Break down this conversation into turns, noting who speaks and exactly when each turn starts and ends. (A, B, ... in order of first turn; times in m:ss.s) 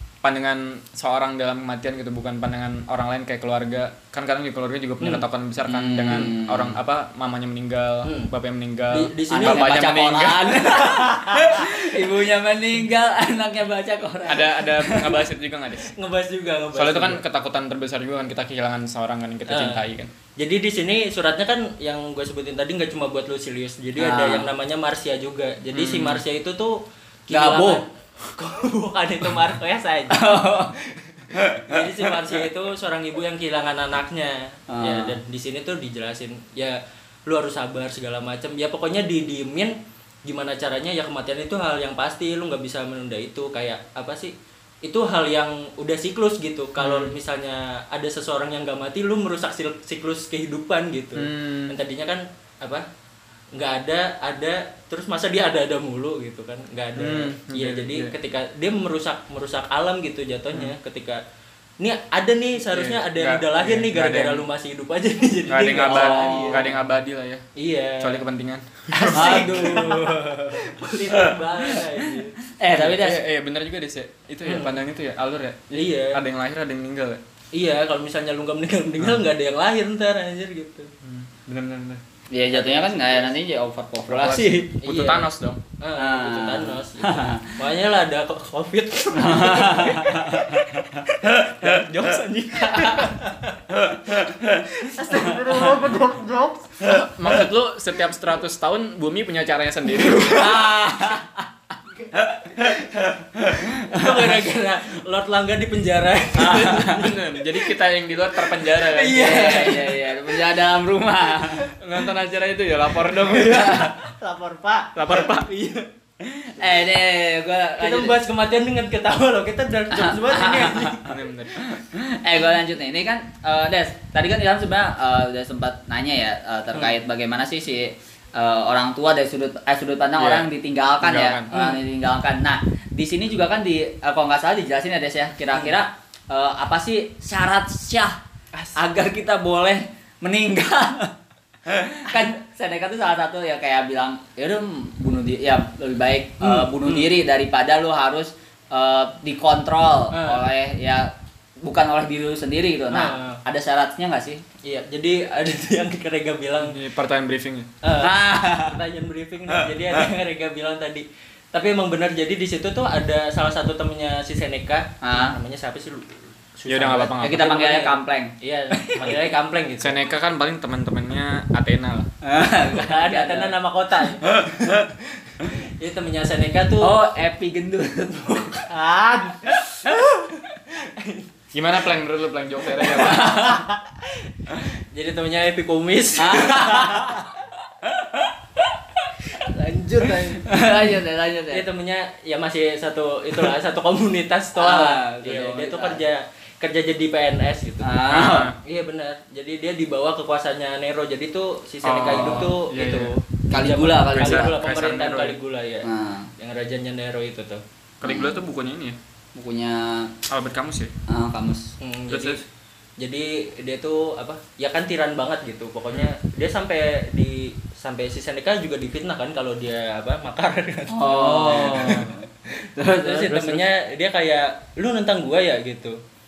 0:00.2-0:10.9 A
0:05.6-0:06.8 B
0:08.0-0:08.3 C
0:08.9-0:09.7 C
0:09.3-0:15.2 B
0:14.2-0:15.9 A
0:15.9-0:17.2 C
0:16.7-0:20.1 A
0:19.5-0:19.8 C
0:20.4-0:52.8 C
0:24.0-0:24.5 B
0:25.7-0:26.2 A
0:27.3-0:27.8 B
0:30.1-0:30.7 B
0:34.7-0:35.2 B
0:46.8-0:47.1 A
0:51.2-0:51.8 A
0:53.5-1:01.2 C
0:57.0-0:58.1 A
1:01.8-1:06.7 C
1:02.7-1:04.4 A
1:05.5-1:07.4 A
1:05.9-1:06.6 B
1:07.6-1:08.2 C
1:08.0-1:09.9 A
1:08.9-1:12.4 C
1:09.1-1:10.2 B
1:12.6-1:13.2 B
1:12.7-1:17.2 A
1:14.4-1:14.8 C
1:15.7-1:16.2 C
1:17.5-1:20.9 C
1:21.0-1:22.0 A
1:22.3-1:24.7 B
1:22.5-1:23.3 C
1:24.1-1:25.6 A
1:24.8-1:25.3 C
1:25.8-1:37.1 C
1:26.0-1:27.6 B
1:29.1-1:31.0 B
1:32.6-1:33.1 B
1:35.1-1:35.6 B
1:36.8-1:40.6 A
1:40.3-1:41.4 B
1:42.5-1:47.7 C
1:43.6-1:44.0 B
1:46.4-1:49.7 A
1:46.5-1:46.9 B
1:48.4-1:50.5 C
1:49.1-1:51.6 B
1:51.8-1:53.9 A
1:53.0-1:55.9 C
1:54.9-1:55.5 A
1:56.2-1:58.2 B
1:57.8-2:01.1 C
1:59.9-2:01.0 B
2:01.0-2:01.7 A
2:01.6-2:18.2 B
2:10.2-2:10.5 A
2:11.0-2:11.5 A
2:11.5-2:11.8 C
2:18.8-2:21.1 B
2:21.7-2:34.4 B
2:26.4-2:27.1 C
2:30.1-2:30.4 C
2:32.9-2:33.4 C
2:34.6-2:36.8 C
2:36.6-2:37.7 A
2:37.8-2:50.0 C
2:38.0-2:38.8 B
2:45.0-2:45.4 B
2:46.7-2:47.5 A
2:47.2-2:49.2 B
2:49.8-2:52.1 A
2:52.2-2:53.5 B
2:52.6-2:56.9 C
2:56.8-2:58.4 B
2:58.2-3:01.3 C
3:01.5-3:03.4 A
3:02.8-3:07.2 C
3:03.0-3:03.6 B
3:06.2-3:07.3 B
3:09.3-3:10.6 C
3:10.4-3:11.6 B
3:11.5-3:18.0 C
3:14.6-3:16.0 B
3:17.8-3:18.5 B
3:18.1-3:18.6 A
3:18.6-3:25.9 C
3:21.8-3:23.1 A
3:22.1-3:22.5 B
3:23.5-3:24.5 B
3:24.1-3:25.4 A
3:25.8-3:26.3 B
3:26.4-3:27.6 C
3:28.0-3:29.0 A
3:28.0-3:28.3 B
3:29.3-3:30.1 B
3:30.3-3:30.9 A
3:31.1-3:31.7 B
3:31.8-3:32.4 C
3:32.1-3:32.4 A
3:33.0-3:42.1 C
3:40.9-3:43.6 B
3:41.4-3:42.0 A
3:42.8-3:46.0 C